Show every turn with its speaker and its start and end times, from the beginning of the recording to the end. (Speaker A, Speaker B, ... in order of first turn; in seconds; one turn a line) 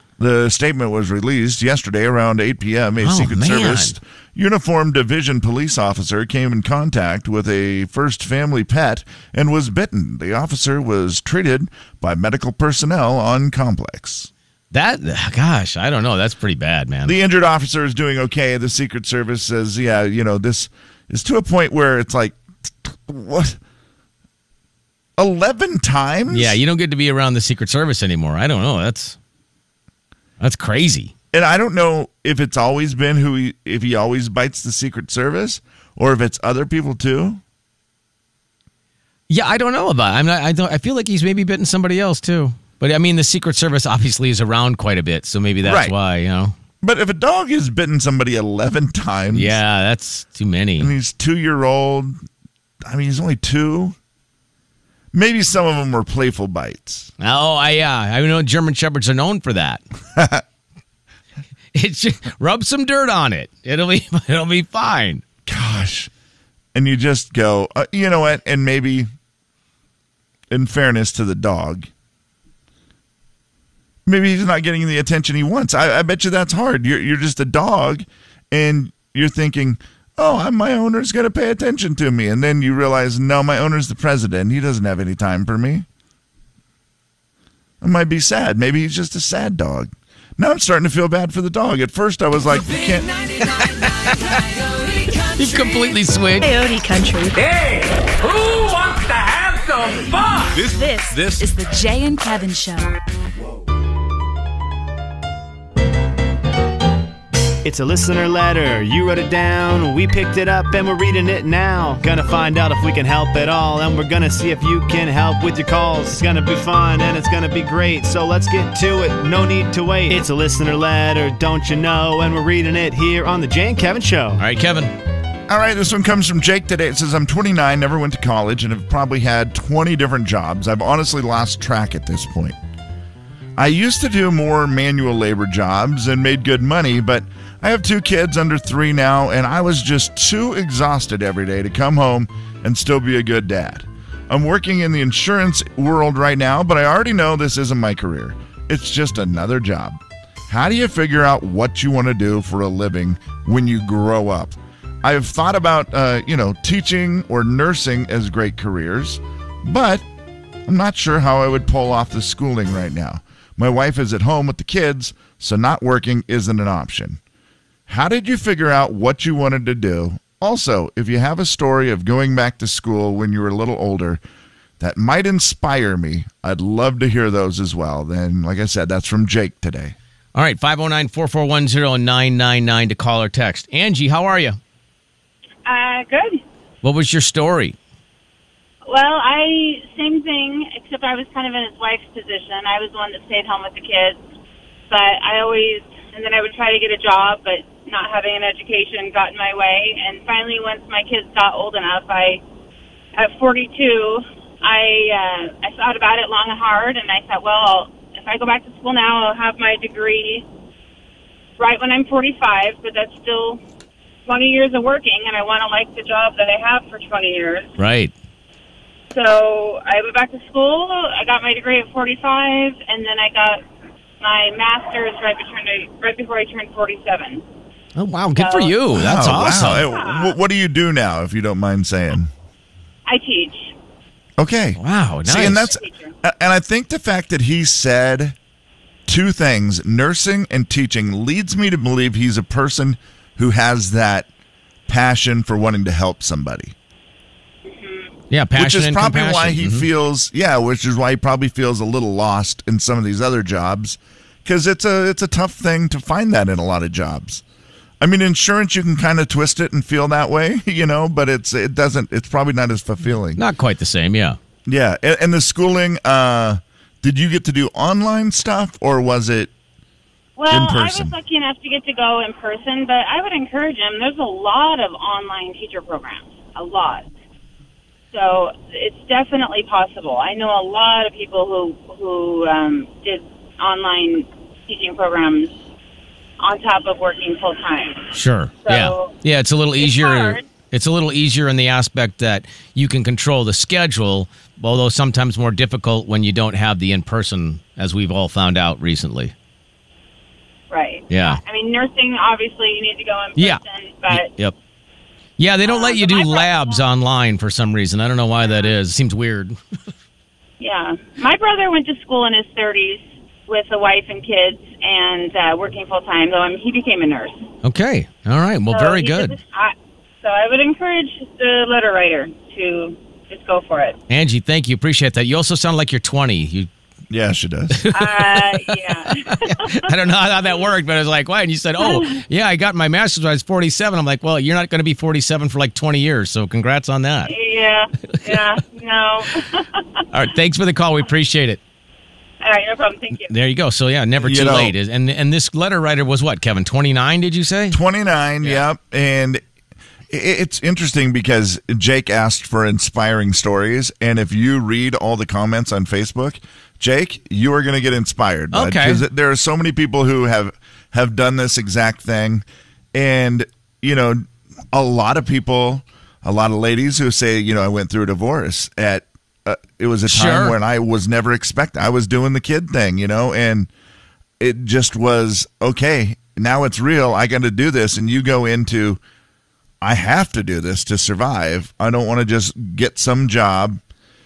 Speaker A: 0.2-14.3
Speaker B: 3.0-4.0
Speaker B: 14.7-17.1
Speaker A: 17.0-23.6
Speaker A: 25.2-26.6
Speaker B: 26.3-29.2
Speaker B: 30.4-31.1
Speaker A: 31.3-37.4
Speaker B: 39.3-46.5
Speaker A: 45.6-45.9
Speaker A: 46.8-49.6
Speaker B: 49.3-50.9
Speaker A: 50.8-52.1
Speaker A: 52.9-54.0
Speaker A: 55.1-57.1
Speaker B: 57.2-59.8
Speaker A: 60.1-60.4
Speaker B: 61.7-65.2
Speaker A: 65.5-66.1
Speaker A: 66.7-69.1
Speaker A: 70.5-71.9
Speaker A: 74.0-85.8
Speaker A: 87.8-93.1
Speaker C: 92.5-95.9
Speaker B: 93.6-94.1
Speaker B: 95.3-96.5
Speaker D: 96.4-97.4
Speaker C: 97.3-100.7
Speaker D: 100.6-102.9
Speaker E: 107.6-124.4
Speaker B: 124.4-124.9
Speaker A: 125.5-132.6
Speaker A: 133.6-160.0
Speaker A: 160.7-167.2
Speaker A: 167.9-174.2
Speaker A: 174.8-179.9
Speaker B: 180.3-184.6
Speaker F: 185.6-186.4
Speaker B: 186.8-187.8
Speaker F: 188.9-194.2
Speaker F: 194.9-202.4
Speaker F: 203.1-210.4
Speaker F: 211.6-213.6
Speaker F: 214.2-217.7
Speaker B: 217.8-218.1
Speaker F: 219.1-223.6
Speaker F: 224.2-227.4
Speaker B: 227.9-229.8
Speaker F: 228.3-228.7
Speaker A: 228.9-232.3
Speaker F: 229.8-230.3
Speaker F: 233.1-233.7
Speaker A: 234.4-238.3
Speaker B: 234.8-235.7
Speaker F: 235.7-236.1
Speaker A: 239.1-244.3
Speaker A: 244.9-246.7
Speaker F: 247.7-248.1
Speaker B: 248.3-249.9
Speaker A: 248.5-257.4
Speaker A: 258.0-263.4
Speaker B: 263.4-264.4
Speaker A: 264.7-269.5
Speaker F: 270.4-277.1
Speaker A: 270.5-271.1
Speaker F: 278.1-285.5
Speaker F: 286.4-288.1
Speaker B: 288.1-299.3
Speaker F: 288.6-289.1
Speaker F: 289.8-290.4
Speaker F: 300.7-304.3
Speaker B: 301.1-301.4
Speaker B: 303.4-304.6
Speaker B: 305.4-309.6
Speaker F: 305.6-306.8
Speaker F: 308.4-308.7
Speaker F: 310.6-317.5
Speaker B: 317.6-319.4
Speaker F: 318.7-324.0
Speaker B: 324.1-326.7
Speaker A: 327.1-327.9
Speaker B: 327.8-337.3
Speaker F: 327.9-329.9
Speaker F: 331.8-332.2
Speaker F: 337.3-339.8
Speaker B: 340.1-341.6
Speaker F: 342.4-343.3
Speaker B: 343.2-347.8
Speaker A: 344.2-344.7
Speaker A: 347.7-349.4
Speaker A: 350.1-373.7
Speaker B: 358.5-359.0
Speaker B: 370.1-370.6
Speaker A: 374.4-379.0
Speaker A: 379.8-383.8